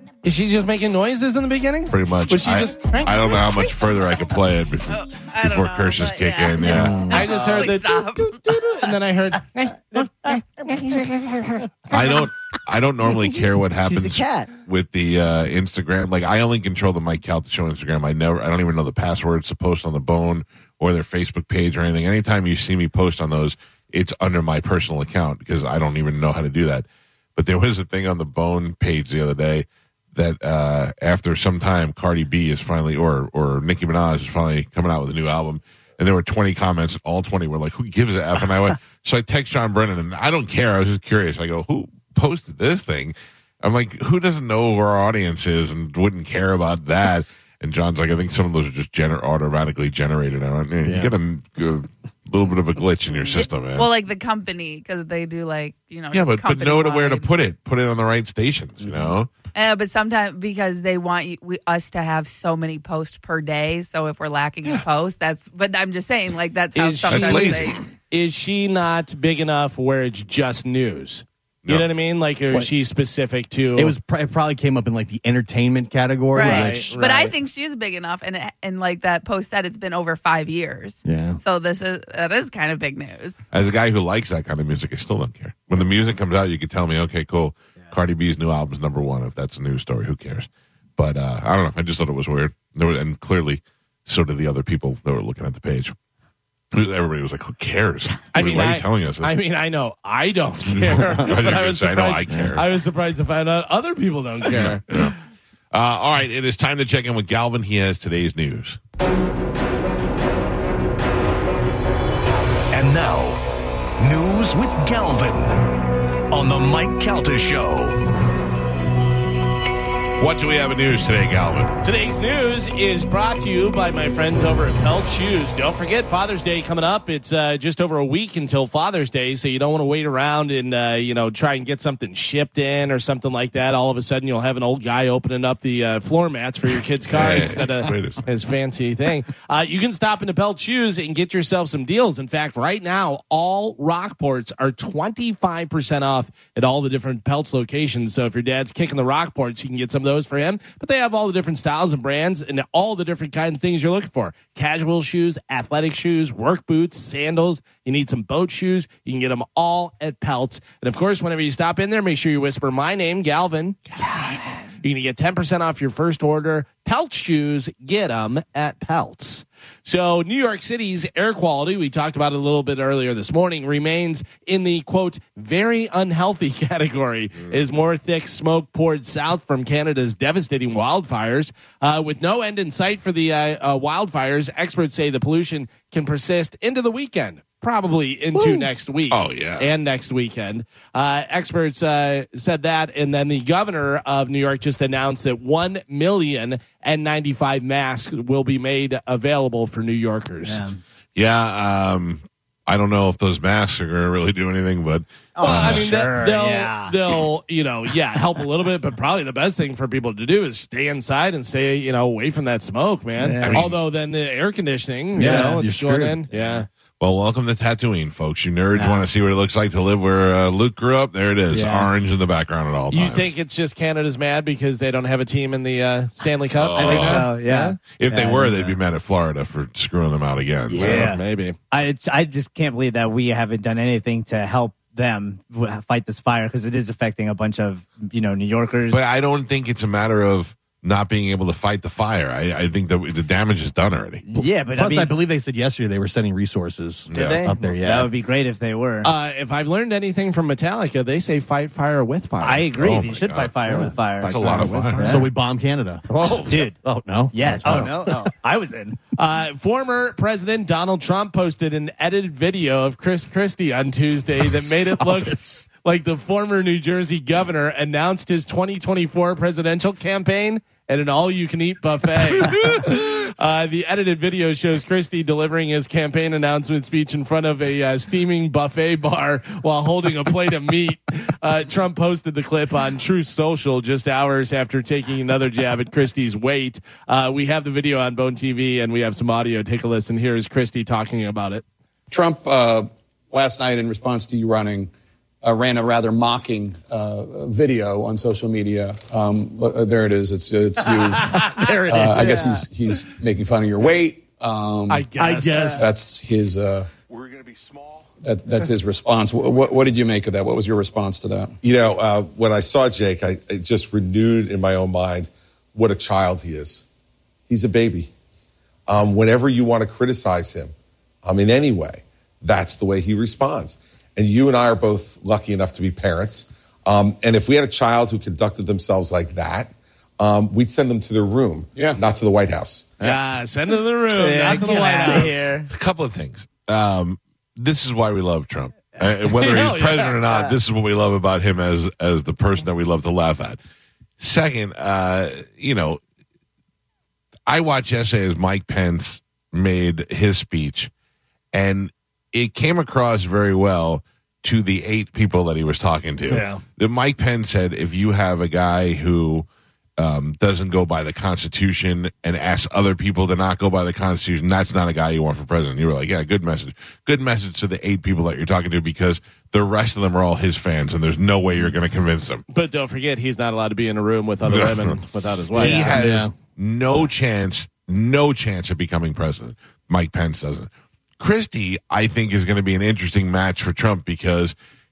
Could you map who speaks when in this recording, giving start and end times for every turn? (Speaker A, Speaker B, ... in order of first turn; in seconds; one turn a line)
Speaker A: 0.2-3.4
Speaker B: 1.9-7.1
Speaker C: 4.9-8.4
Speaker D: 6.7-7.3
Speaker E: 6.7-7.2
Speaker A: 7.1-10.4
Speaker E: 9.9-11.7
Speaker B: 11.9-53.9
Speaker E: 13.8-14.5
Speaker D: 50.8-51.1
Speaker C: 53.8-57.3
Speaker B: 56.1-59.3
Speaker C: 59.5-67.8
Speaker A: 66.8-74.0
Speaker B: 67.1-67.8
Speaker D: 73.8-77.0
Speaker C: 76.3-83.4
Speaker A: 76.3-77.3
Speaker D: 81.0-81.4
Speaker B: 83.5-95.9
Speaker B: 96.7-99.3
Speaker A: 98.3-105.1
Speaker B: 100.7-102.7
Speaker B: 104.5-105.2
Speaker B: 105.7-108.8
Speaker F: 112.7-113.4
Speaker F: 114.0-115.7
Speaker F: 116.3-118.0
Speaker B: 120.2-121.7
Speaker A: 121.8-164.0
Speaker B: 137.1-138.2
Speaker E: 164.1-164.3
Speaker A: 164.8-200.6
Speaker E: 188.4-188.6
Speaker B: 189.1-189.7
Speaker E: 200.4-200.8
Speaker B: 201.2-205.9
Speaker E: 205.3-206.9
Speaker A: 205.4-216.7
Speaker E: 213.2-213.6
Speaker B: 213.4-213.8
Speaker D: 215.2-216.2
Speaker E: 215.2-215.6
Speaker B: 217.0-223.3
Speaker E: 218.7-219.0
Speaker E: 221.5-221.9
Speaker A: 222.9-227.8
Speaker B: 226.5-227.3
Speaker E: 226.8-228.8
Speaker B: 227.9-231.2
Speaker E: 230.7-239.0
Speaker A: 230.7-231.6
Speaker B: 238.9-244.2
Speaker E: 244.3-245.1
Speaker D: 244.4-248.1
Speaker B: 247.1-247.4
Speaker E: 247.1-249.1
Speaker A: 249.0-252.7
Speaker E: 252.4-255.2
Speaker B: 252.7-253.5
Speaker A: 253.7-255.2
Speaker B: 254.2-255.2
Speaker D: 255.0-258.3
Speaker A: 256.1-256.6
Speaker E: 256.5-256.8
Speaker E: 257.3-259.0
Speaker A: 259.2-291.6
Speaker B: 272.4-273.1
Speaker G: 292.1-294.9
Speaker G: 295.4-305.1
Speaker A: 301.4-302.5
Speaker D: 302.0-302.2
Speaker E: 302.2-302.6
Speaker A: 304.9-305.9
Speaker D: 305.2-305.9
Speaker G: 305.7-306.9
Speaker G: 308.2-311.6
Speaker H: 311.6-316.9
Speaker H: 317.5-318.1
Speaker H: 318.9-320.7
Speaker H: 321.2-332.9
Speaker G: 331.8-332.0
Speaker A: 333.0-335.5
Speaker E: 334.1-335.7
Speaker B: 335.7-343.6
Speaker A: 339.3-340.2
Speaker B: 344.2-346.0
Speaker B: 347.5-350.9
Speaker B: 351.5-359.5
Speaker B: 360.0-372.4
Speaker A: 372.5-376.0
Speaker B: 374.5-375.0
Speaker B: 375.5-384.6
Speaker D: 375.6-376.4
Speaker E: 375.6-375.9